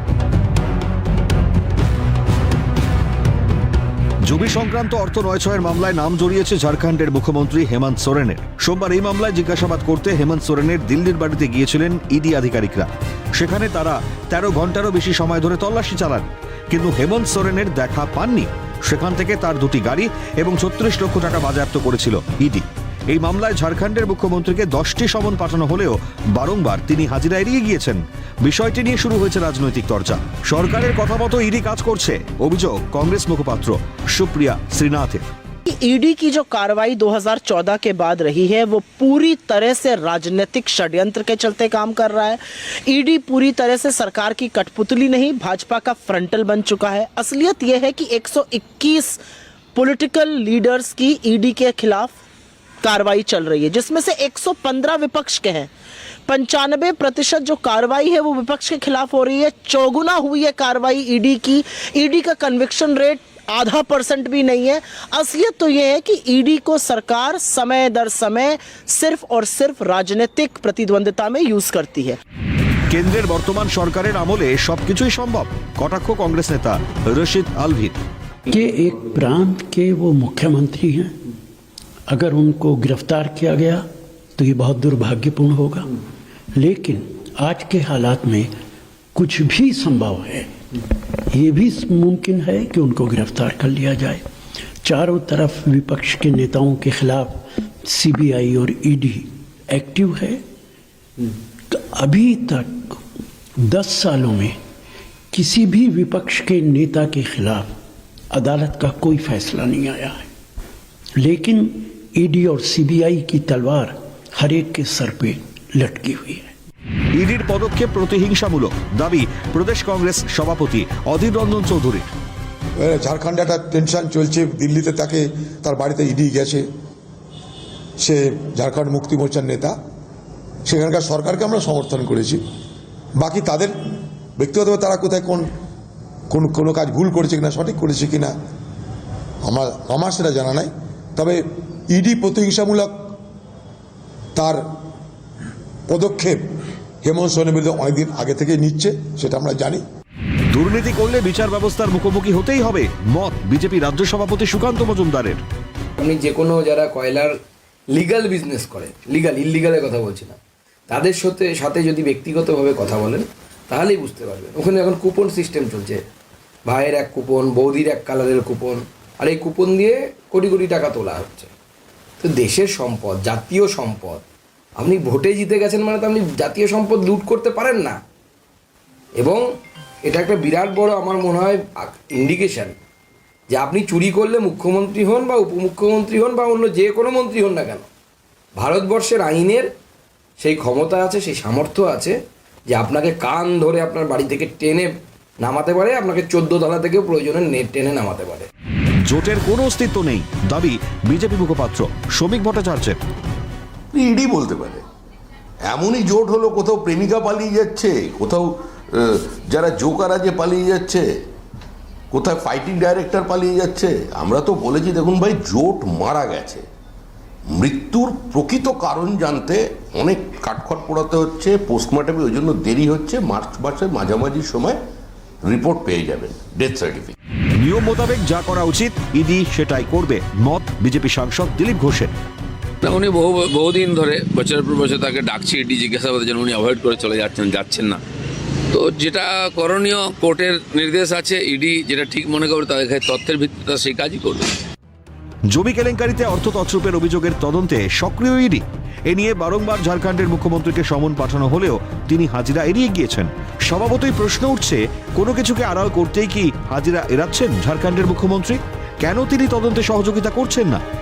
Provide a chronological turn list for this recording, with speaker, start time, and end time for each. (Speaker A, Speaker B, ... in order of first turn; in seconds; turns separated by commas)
Speaker A: 4.2-35.3, Speaker B: 35.7-49.2, Speaker B: 49.8-52.2, Speaker B: 52.8-55.7, Speaker B: 56.3-72.2, Speaker A: 72.9-78.0, Speaker C: 78.5-81.2, Speaker C: 82.1-83.8, Speaker C: 84.4-85.9, Speaker C: 86.6-88.5, Speaker C: 89.2-90.5, Speaker C: 91.3-94.2, Speaker C: 94.8-100.4, Speaker C: 101.7-103.0, Speaker C: 103.6-104.6, Speaker C: 105.3-107.7, Speaker C: 108.3-110.3, Speaker C: 111.2-116.5, Speaker A: 117.1-122.1, Speaker D: 122.8-126.7, Speaker D: 128.0-129.8, Speaker D: 130.7-132.4, Speaker D: 133.2-133.7, Speaker D: 134.4-135.5, Speaker D: 136.3-138.3, Speaker D: 139.4-143.1, Speaker D: 144.4-144.6, Speaker D: 145.9-146.4, Speaker D: 147.0-149.8, Speaker A: 150.5-155.4, Speaker E: 156.0-157.4, Speaker E: 157.9-160.4, Speaker E: 160.9-166.1, Speaker E: 166.7-171.5, Speaker E: 172.2-174.2, Speaker E: 174.8-178.0, Speaker E: 179.2-179.4, Speaker E: 180.1-182.8, Speaker E: 183.5-187.9, Speaker E: 188.6-189.7, Speaker E: 190.4-192.2, Speaker E: 192.7-198.5, Speaker A: 199.0-203.0, Speaker F: 203.9-204.8, Speaker F: 205.7-211.1, Speaker F: 212.1-216.7, Speaker F: 217.5-224.8, Speaker F: 225.4-227.2, Speaker A: 227.6-232.1, Speaker G: 232.8-238.0, Speaker G: 238.7-244.6, Speaker A: 245.5-260.8